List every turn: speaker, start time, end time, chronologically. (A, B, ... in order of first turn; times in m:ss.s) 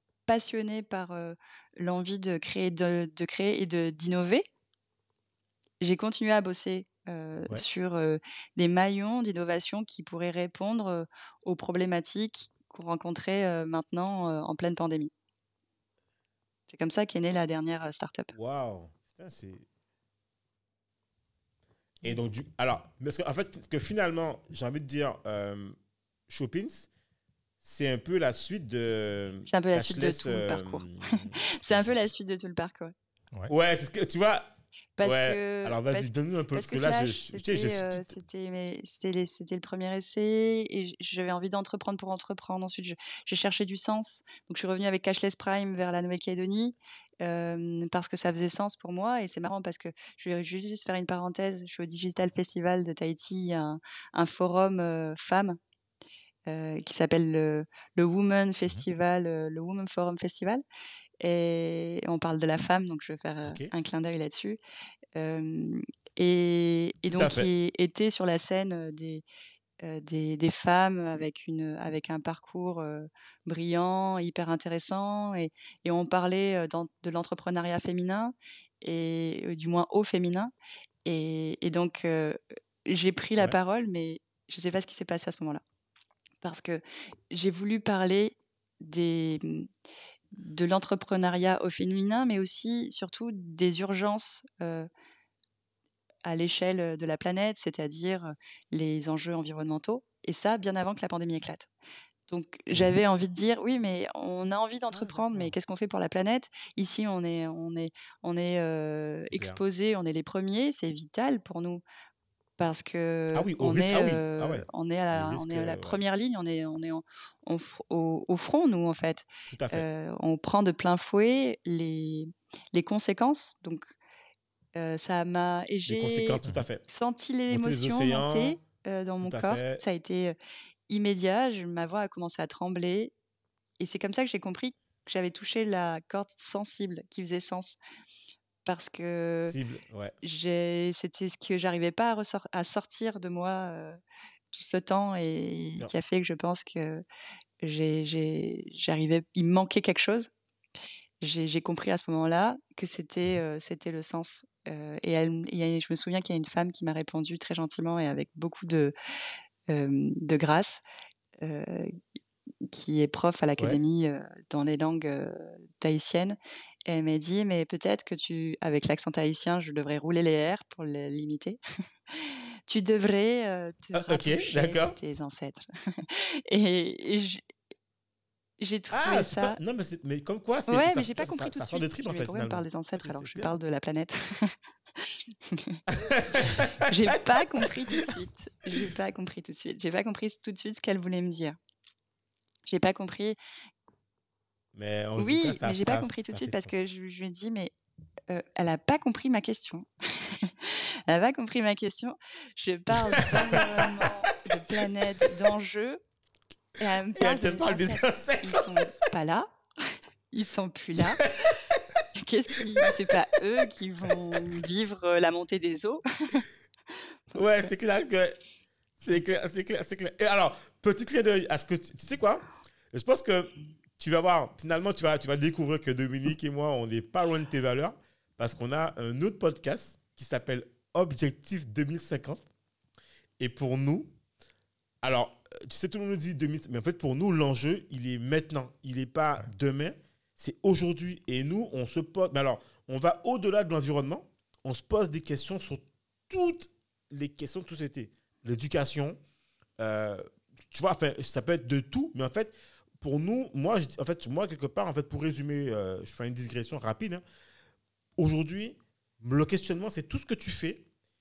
0:00.3-0:04.5 A
0:05.8-0:15.1 A
0:16.7-0:18.3 A
0:18.3-0:19.7 B
0:22.0-0:25.8 B
0:26.3-0:26.9 B
0:27.6-0:31.9 B
0:29.5-0:32.9 A
0:33.5-0:38.2 B
0:35.0-0:55.6 A
0:56.5-1:00.6 A
1:01.2-1:04.6 A
1:03.4-1:03.7 B
1:05.2-1:09.2 A
1:07.1-1:07.5 B
1:09.8-1:20.5 A
1:21.0-1:25.6 A
1:26.4-1:29.7 A
1:30.3-1:34.9 A
1:36.2-1:41.7 A
1:42.3-1:51.8 A
1:44.9-1:45.5 B
1:49.3-1:49.6 B
1:52.6-2:03.9 A
1:53.3-1:56.0 B
1:59.5-1:59.9 B
2:04.8-2:10.4 A
2:05.9-2:06.8 B
2:07.5-2:08.6 B
2:09.2-2:09.8 B
2:10.9-2:13.1 A
2:13.8-2:17.8 A
2:18.6-2:19.6 A
2:19.5-2:20.2 B
2:20.2-2:24.0 A
2:24.5-2:27.0 A
2:27.6-2:30.3 A
2:31.2-2:39.0 A
2:39.7-2:40.8 A
2:41.4-2:42.0 A
2:42.6-2:51.6 A
2:52.1-2:57.4 A
2:54.0-2:55.0 B
2:58.6-2:59.6 A
2:58.9-3:03.5 B
3:00.7-3:05.8 A
3:05.9-3:07.4 B
3:06.4-3:11.6 A
3:12.7-3:13.4 A
3:14.8-3:16.7 B
3:15.2-3:17.7 A
3:18.3-3:26.0 A
3:23.0-3:24.1 B
3:26.8-3:31.3 A
3:27.2-3:29.0 B
3:31.2-3:31.8 B
3:32.1-3:36.5 A
3:37.3-3:38.4 B
3:39.0-3:52.4 B
3:53.4-3:54.1 B
3:55.0-4:09.2 B
4:09.8-4:17.2 B
4:18.2-4:20.8 B